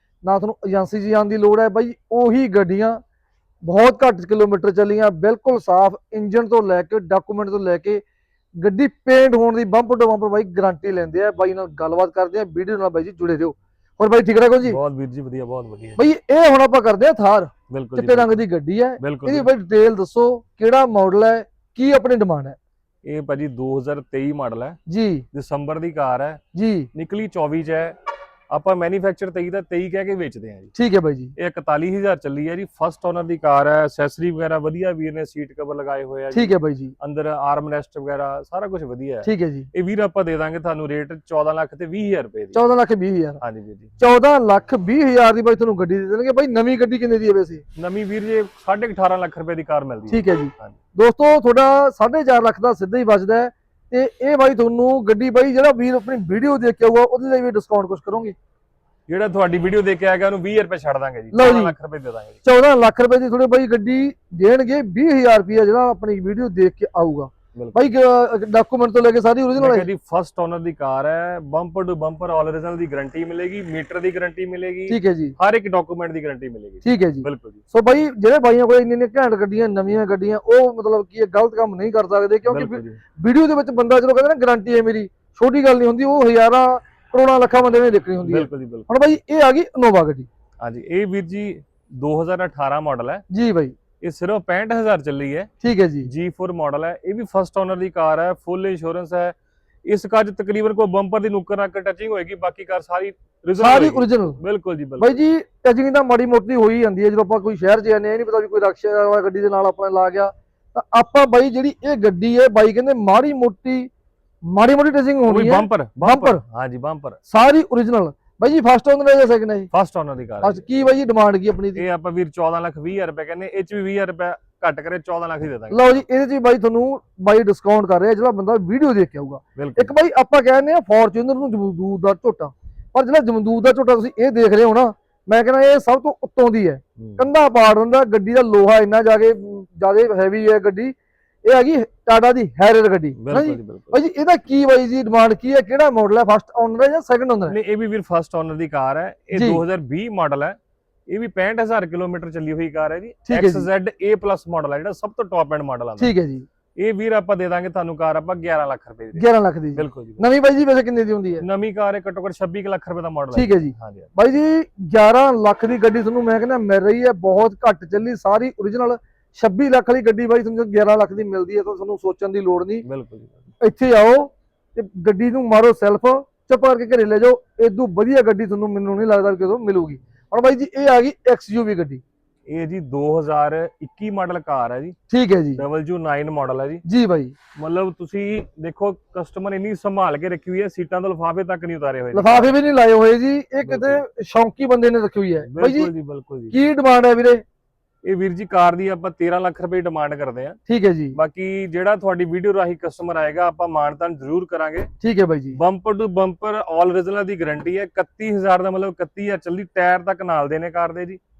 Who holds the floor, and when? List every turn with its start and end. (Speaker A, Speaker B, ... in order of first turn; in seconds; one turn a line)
Speaker A: 0.2-3.0
Speaker A: 3.6-8.0
Speaker A: 8.6-14.8
Speaker B: 14.7-16.0
Speaker A: 16.0-22.6
Speaker B: 17.7-18.4
Speaker B: 19.0-19.5
Speaker B: 23.0-24.8
Speaker A: 24.9-25.2
Speaker B: 25.3-26.4
Speaker A: 26.5-26.9
Speaker B: 26.9-27.9
Speaker B: 28.5-30.7
Speaker A: 30.7-31.3
Speaker B: 31.4-42.6
Speaker A: 36.3-36.9
Speaker A: 39.2-39.7
Speaker A: 42.5-43.4
Speaker B: 43.4-43.9
Speaker A: 44.0-47.6
Speaker B: 47.8-50.7
Speaker A: 50.1-58.3
Speaker B: 59.1-62.4
Speaker A: 61.3-61.7
Speaker A: 62.4-69.9
Speaker B: 67.5-67.9
Speaker B: 69.5-77.6
Speaker A: 74.9-75.3
Speaker A: 76.8-90.3
Speaker B: 82.4-83.0
Speaker B: 88.2-88.9
Speaker B: 90.6-93.2
Speaker A: 93.3-93.7
Speaker B: 94.0-95.5
Speaker A: 95.6-96.1
Speaker B: 96.0-105.2
Speaker A: 103.6-104.4
Speaker A: 105.0-113.9
Speaker A: 114.5-116.4
Speaker B: 115.2-117.2
Speaker A: 117.3-119.7
Speaker B: 119.7-120.8
Speaker A: 120.4-121.8
Speaker B: 121.8-125.9
Speaker A: 125.7-140.9
Speaker B: 129.6-129.9
Speaker B: 137.0-137.2
Speaker A: 141.4-147.6
Speaker B: 143.2-144.0
Speaker B: 147.5-150.6
Speaker A: 149.3-149.6
Speaker B: 151.1-156.1
Speaker A: 153.3-153.7
Speaker A: 156.0-156.4
Speaker B: 156.8-160.3
Speaker A: 159.2-161.4
Speaker B: 161.4-164.1
Speaker A: 163.3-172.8
Speaker B: 172.8-173.4
Speaker A: 173.6-182.0
Speaker B: 182.5-184.9
Speaker A: 185.1-185.6
Speaker B: 185.6-186.8
Speaker A: 186.8-187.3
Speaker B: 187.5-192.5
Speaker A: 192.1-195.9
Speaker B: 193.6-194.0
Speaker B: 195.4-196.6
Speaker A: 196.5-197.4
Speaker B: 198.0-200.6
Speaker A: 200.7-201.2
Speaker B: 201.1-204.9
Speaker A: 205.0-205.6
Speaker B: 205.5-211.2